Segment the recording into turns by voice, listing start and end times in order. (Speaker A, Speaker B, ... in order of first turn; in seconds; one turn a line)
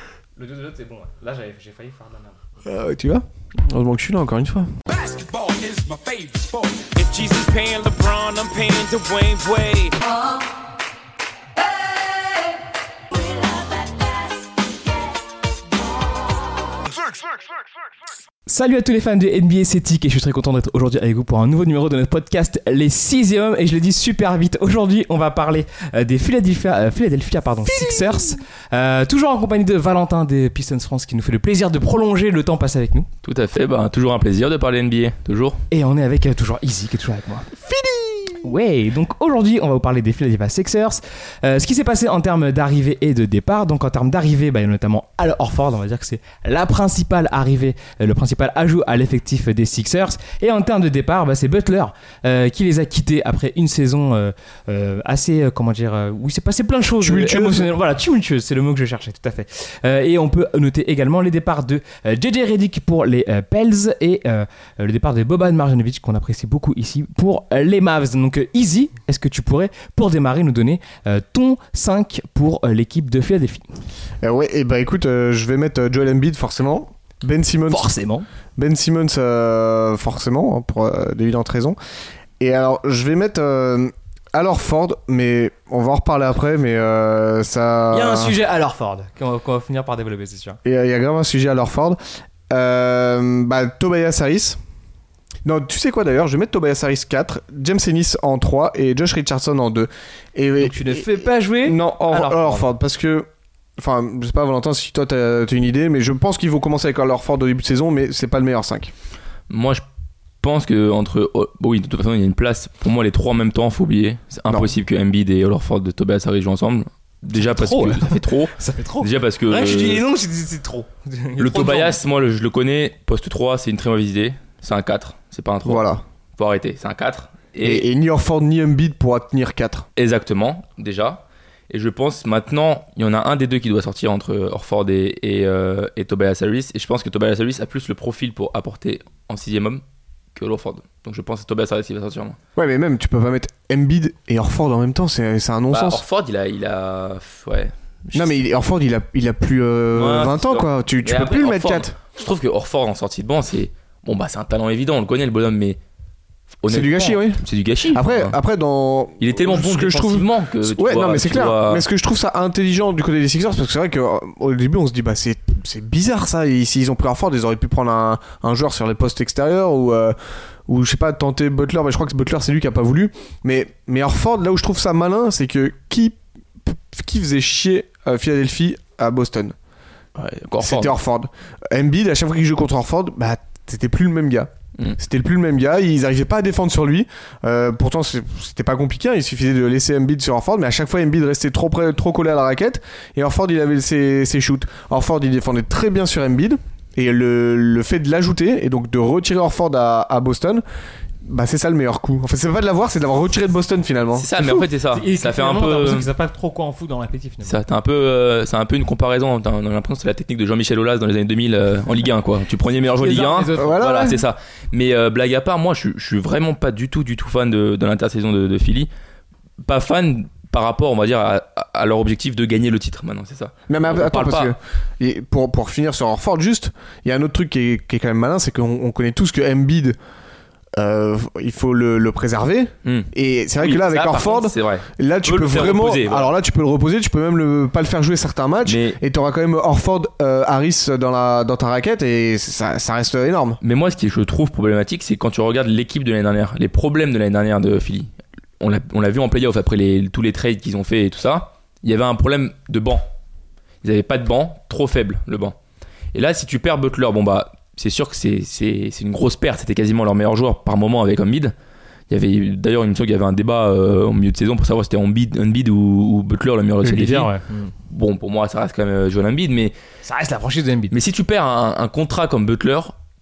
Speaker A: 0.4-2.4
Speaker B: 2.6-4.7
Speaker C: 5.1-9.9
Speaker A: 18.5-33.1
Speaker B: 27.7-28.2
Speaker D: 33.2-35.6
Speaker A: 35.7-37.5
Speaker B: 37.6-38.5
Speaker A: 38.4-73.8
Speaker B: 57.0-57.7
Speaker B: 74.2-77.9
Speaker A: 77.7-78.3
Speaker B: 78.6-81.8
Speaker B: 82.4-88.4
Speaker A: 87.9-90.6
Speaker B: 90.7-92.0
Speaker B: 92.5-94.6
Speaker B: 95.5-103.3
Speaker A: 100.6-102.7
Speaker B: 103.8-108.9
Speaker D: 109.5-109.8
Speaker D: 110.4-120.0
Speaker A: 117.4-122.0
Speaker D: 121.4-127.9
Speaker B: 125.7-126.0
Speaker B: 127.6-129.9
Speaker D: 130.0-139.8
Speaker D: 140.3-142.4
Speaker B: 142.6-146.0
Speaker D: 145.7-148.4
Speaker B: 148.2-151.9
Speaker D: 149.9-155.8
Speaker D: 156.6-158.3
Speaker B: 156.7-170.2
Speaker D: 159.2-161.8
Speaker B: 170.7-179.6
Speaker D: 180.2-180.9
Speaker B: 180.6-200.6
Speaker B: 201.2-204.7
Speaker D: 204.2-206.1
Speaker A: 204.9-207.6
Speaker D: 207.4-218.9
Speaker A: 213.0-213.8
Speaker B: 213.6-214.2
Speaker D: 219.6-224.6
Speaker B: 223.7-230.0
Speaker B: 230.8-243.6
Speaker D: 232.8-233.1
Speaker D: 233.6-236.3
Speaker D: 238.6-239.0
Speaker D: 243.6-253.1
Speaker D: 253.8-255.6
Speaker D: 256.1-261.6
Speaker D: 262.1-267.3
Speaker A: 266.8-267.7
Speaker D: 267.9-269.8
Speaker A: 270.0-271.0
Speaker D: 270.9-273.0